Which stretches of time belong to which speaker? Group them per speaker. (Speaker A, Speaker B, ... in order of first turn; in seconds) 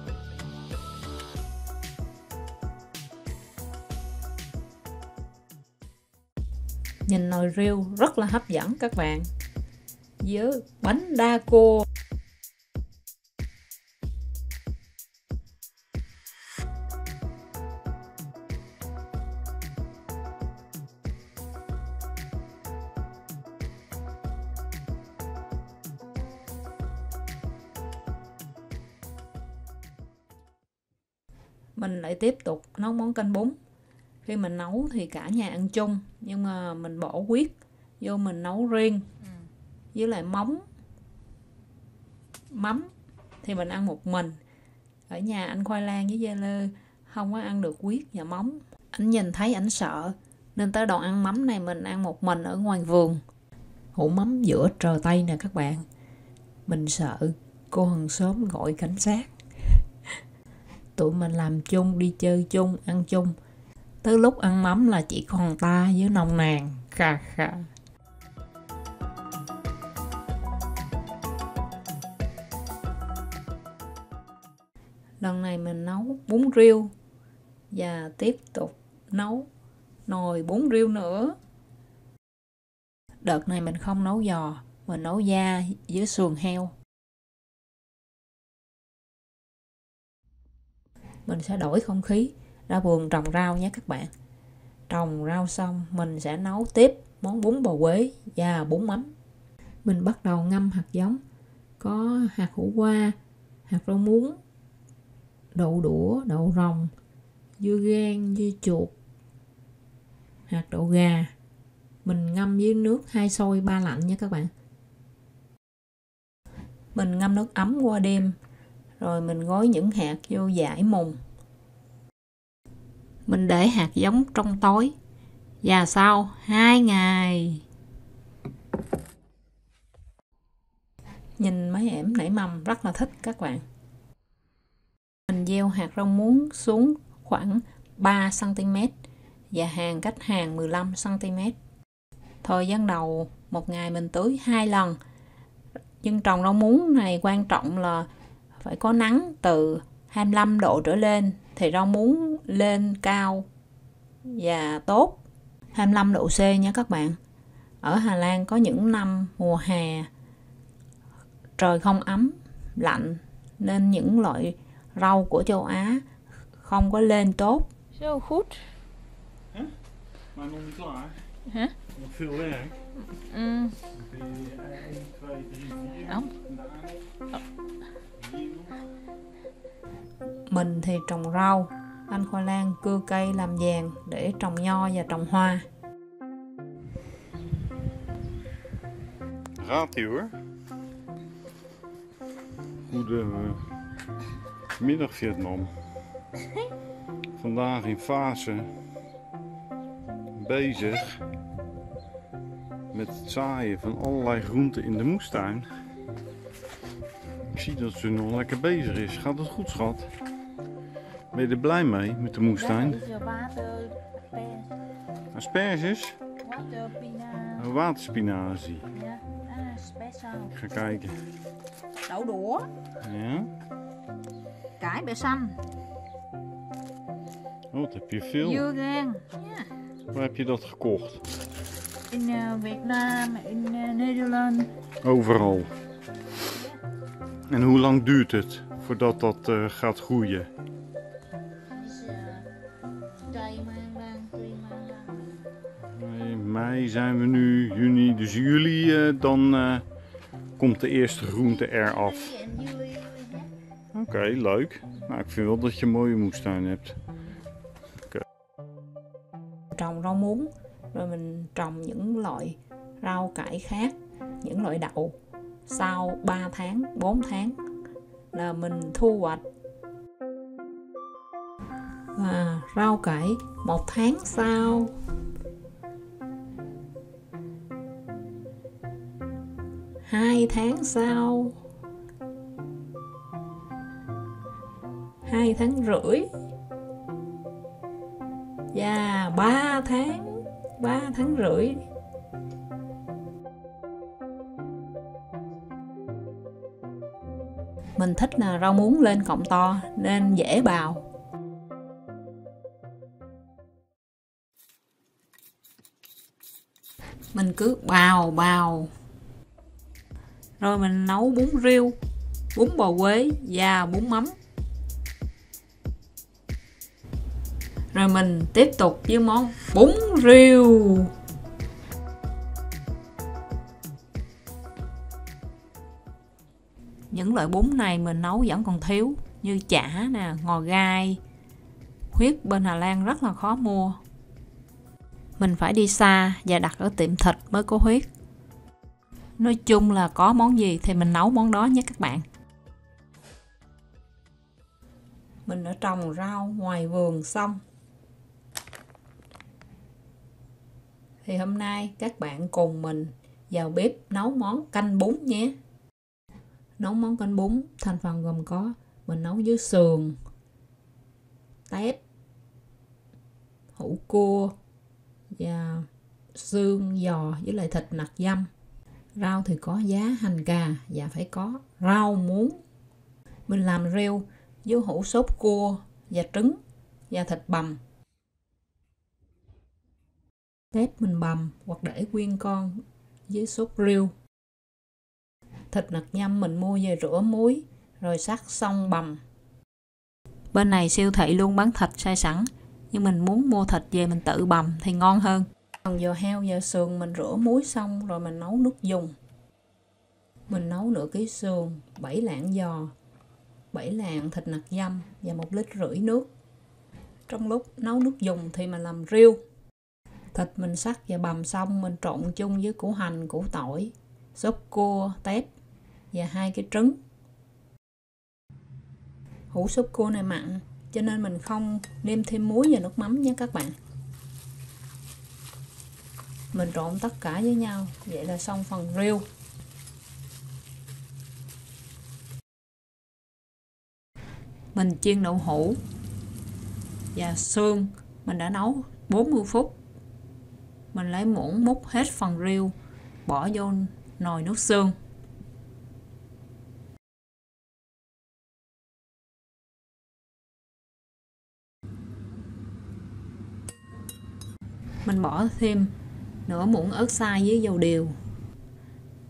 Speaker A: 7.1-9.3, 10.2-11.9, 31.8-33.5, 34.2-39.1, 39.9-40.6, 42.5-42.9, 43.4-44.4, 45.1-53.2, 54.0-55.9, 56.7-59.3, 61.0-63.3, 64.0-67.7, 75.2-76.9, 77.7-79.5, 80.1-81.4, 83.2-86.7, 91.3-94.1, 94.9-99.1, 99.8-101.2, 101.8-103.2, 103.7-104.4, 105.5-106.9, 107.6-108.9, 110.5-111.3, 112.0-114.5, 116.9-118.4, 119.0-121.2, 123.3-125.0, 125.6-127.6, 131.4-133.6, 135.3-138.9, 139.5-141.6, 142.4-145.0, 146.0-148.1, 148.6-153.5, 154.2-155.2, 155.7-157.2, 157.8-160.1, 161.6-166.1, 166.6-167.7, 180.5-185.7, 222.1-222.7, 224.8-225.5, 228.7-229.1, 232.1-234.7, 259.7-265.1, 265.7-267.6, 268.3-269.4, 272.1-274.9, 280.0-281.6, 285.3-286.3, 288.7-291.8, 298.0-301.0, 307.3-308.9, 310.6-311.9, 312.5-314.4, 317.9-321.1, 327.1-331.2, 332.1-334.0, 335.4-338.1, 339.4-342.2, 345.5-347.6, 351.2-355.5, 356.8-360.2, 361.7-362.0, 363.8-364.6, 365.4-368.5, 369.2-372.6, 373.5-376.6, 377.1-377.8, 380.7-384.1, 385.7-389.2, 390.5-399.2, 400.5-402.9, 403.7-406.3, 407.3-409.4, 410.3-415.5, 416.1-417.0, 419.5-423.8, 426.5-429.2, 434.7-435.8, 437.1-439.8, 440.9-442.7, 443.2-444.9, 455.1-455.9, 456.5-458.2
Speaker B: 168.0-168.6, 173.2-173.7, 212.7-214.7, 216.4-217.6, 219.0-220.5, 224.8-225.5, 228.4-229.4, 232.1-234.7, 241.8-242.4, 243.3-245.2, 252.3-253.5
Speaker C: 170.3-171.2, 171.9-172.8, 173.9-177.0, 178.2-178.8, 189.6-190.3, 192.9-193.6, 194.8-195.7, 197.4-198.7, 200.3-201.2, 202.9-205.7, 207.5-210.1, 211.3-213.1, 215.3-216.2, 217.6-218.9, 220.5-221.2, 223.0-223.5, 227.7-228.7, 230.1-231.2, 235.0-235.7, 237.5-240.5, 245.9-249.8, 250.6-252.4, 253.9-257.0